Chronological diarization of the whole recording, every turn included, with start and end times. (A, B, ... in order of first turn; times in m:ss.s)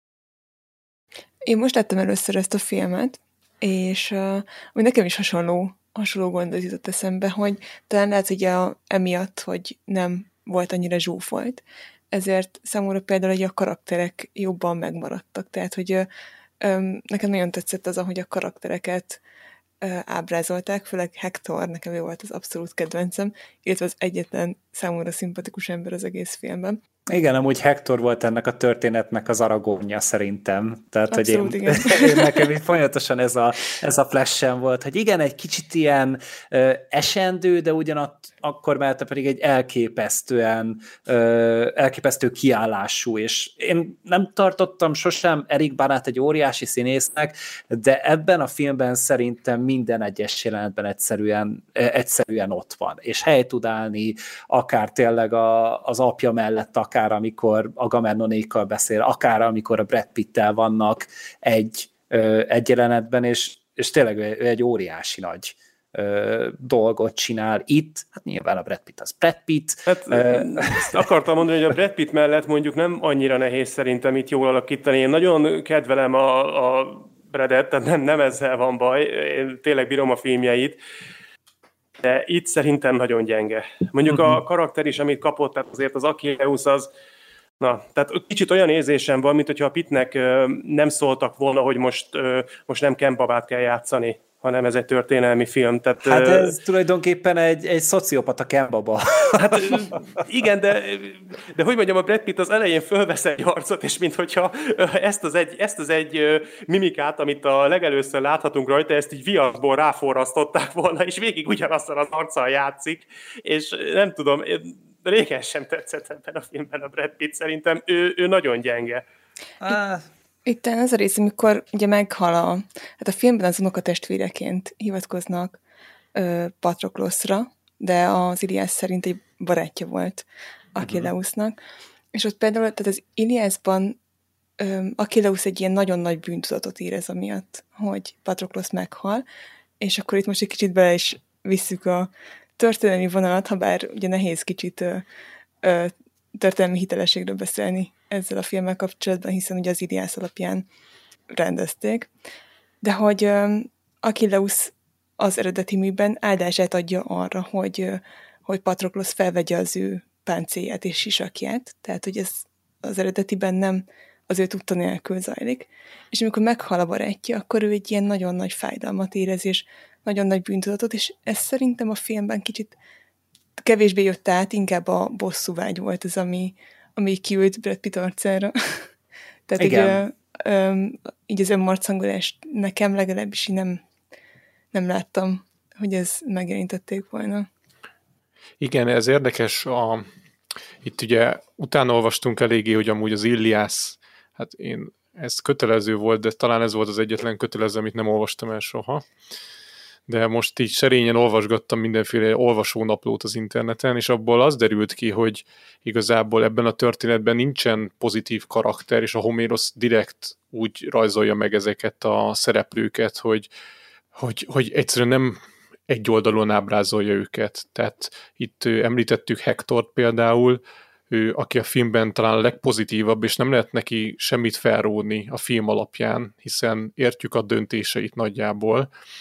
0:01.5-0:16.1 A
0:16.6-0:19.2 A
0:19.8-0:26.8 A
0:27.1-1:11.1 B
0:31.1-0:32.5 A
1:09.9-1:20.8 C
1:22.0-1:26.9 C
1:24.1-1:24.4 B
1:27.6-1:36.6 C
1:36.0-1:40.0 B
1:39.6-1:59.0 C
1:59.6-2:00.0 B
2:00.5-2:05.6 A
2:06.1-2:11.6 A
2:12.1-2:14.0 A
2:14.6-2:19.2 A
2:19.8-2:25.0 A
2:25.6-2:30.6 A
2:31.3-2:32.1 A
2:32.8-2:52.8 A
2:53.6-2:58.5 A
2:59.5-3:03.8 A
2:59.6-3:00.0 B
3:04.7-3:07.5 A
3:08.6-3:10.1 D
3:10.8-3:19.1 D
3:20.1-3:33.5 D
3:34.1-3:48.9 D